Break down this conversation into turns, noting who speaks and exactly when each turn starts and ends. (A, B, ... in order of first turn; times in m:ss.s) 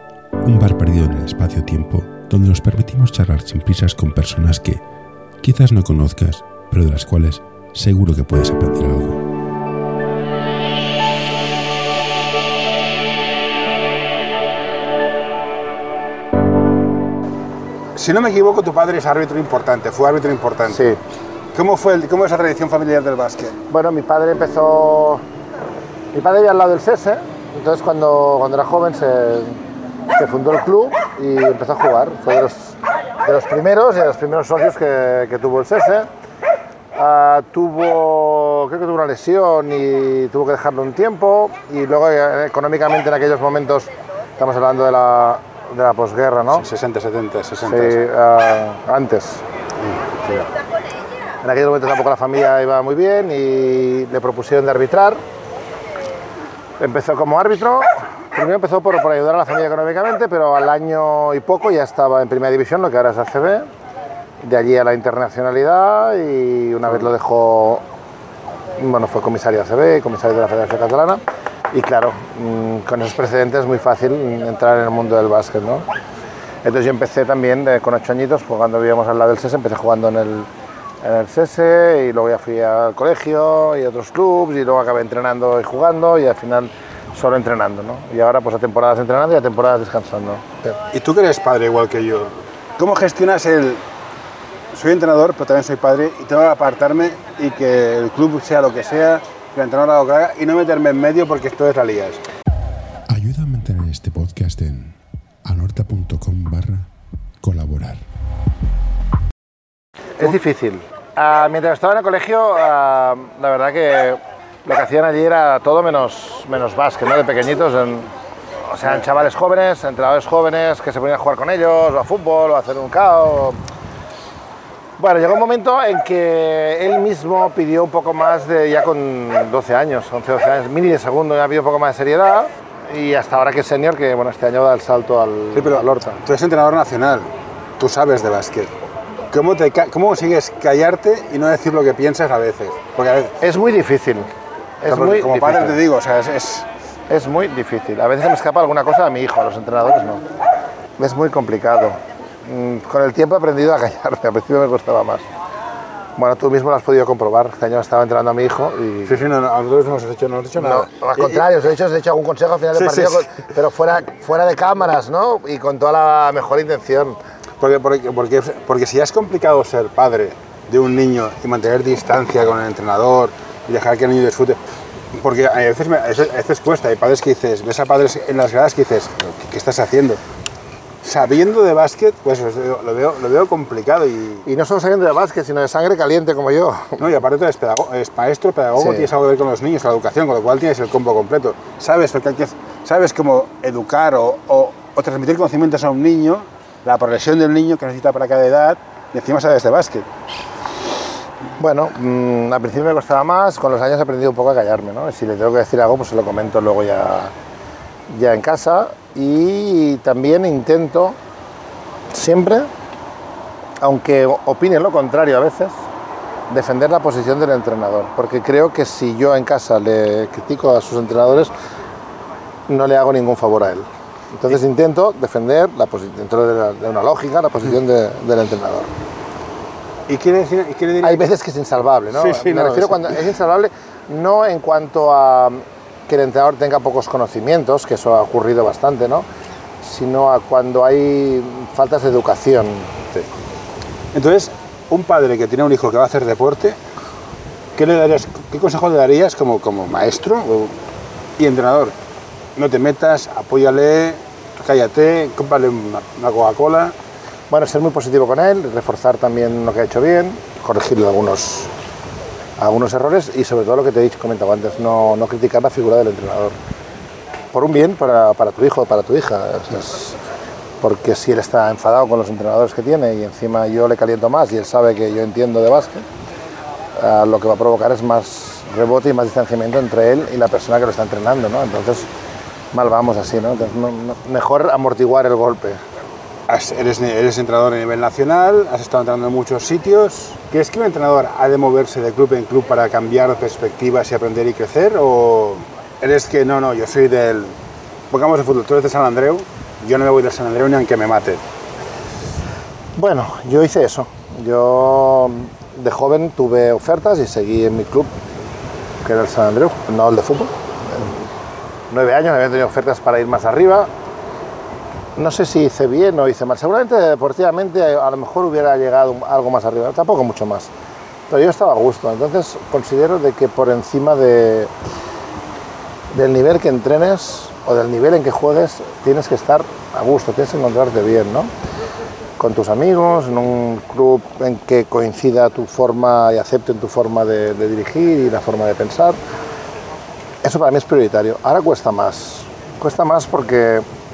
0:00.4-0:04.8 A
0:05.4-0:09.2 A
0:17.9-0:20.9 B
0:20.7-0:21.0 C
0:21.5-0:23.6 B
0:23.7-0:25.2 C
0:26.1-0:29.6 C
0:30.2-0:36.1 C
0:36.9-0:46.6 C
0:46.5-0:48.0 B
0:47.6-0:49.4 C
0:49.8-0:50.5 B
0:51.4-0:55.2 C
0:56.8-1:03.7 C
1:04.4-1:07.8 C
1:08.8-1:15.8 C
1:16.6-1:20.5 C
1:21.0-1:30.7 C
1:30.8-1:33.8 B
1:34.7-1:42.2 B
1:43.1-1:46.9 A
1:47.4-1:48.0 A
1:50.2-1:58.1 C
1:58.7-2:03.6 C
2:05.0-2:16.2 C
2:15.5-2:18.8 B
2:19.3-2:23.4 B
2:23.4-2:24.3 C
2:24.8-2:25.8 C
2:24.8-2:26.7 B
2:27.1-2:30.2 C
2:31.0-2:35.2 C
2:36.2-2:39.2 C
2:39.0-2:41.5 B
2:40.6-2:47.2 C
2:42.7-2:43.3 B
2:47.6-2:54.6 B
2:55.1-3:00.2 B
3:01.0-3:04.4 B
3:04.4-3:07.0 C
3:07.0-3:20.1 B
3:08.8-3:09.1 C
3:21.6-3:27.3 C
3:28.1-3:31.2 C
3:32.1-3:32.7 C
3:33.8-3:35.8 C
3:36.5-3:41.5 C
3:42.7-3:48.9 C
3:50.1-3:51.2 B
3:51.0-3:59.2 C
3:52.1-3:53.2 B
3:59.8-4:02.9 C
4:04.1-4:06.8 B
4:07.8-4:10.8 B
4:11.4-4:11.9 B
4:12.6-4:16.9 B
4:17.5-4:21.7 C
4:22.6-4:26.6 C
4:27.5-4:30.2 C
4:30.8-4:36.0 C
4:37.0-4:42.1 C
4:42.7-4:45.8 C
4:46.5-4:57.6 B
4:58.1-5:01.4 B
5:03.0-5:08.1 C
5:09.0-5:11.2 C
5:11.9-5:13.9 C
5:15.2-5:20.7 C
5:21.3-5:24.7 C
5:26.1-5:31.5 C
5:32.4-5:39.2 C
5:40.4-5:43.8 C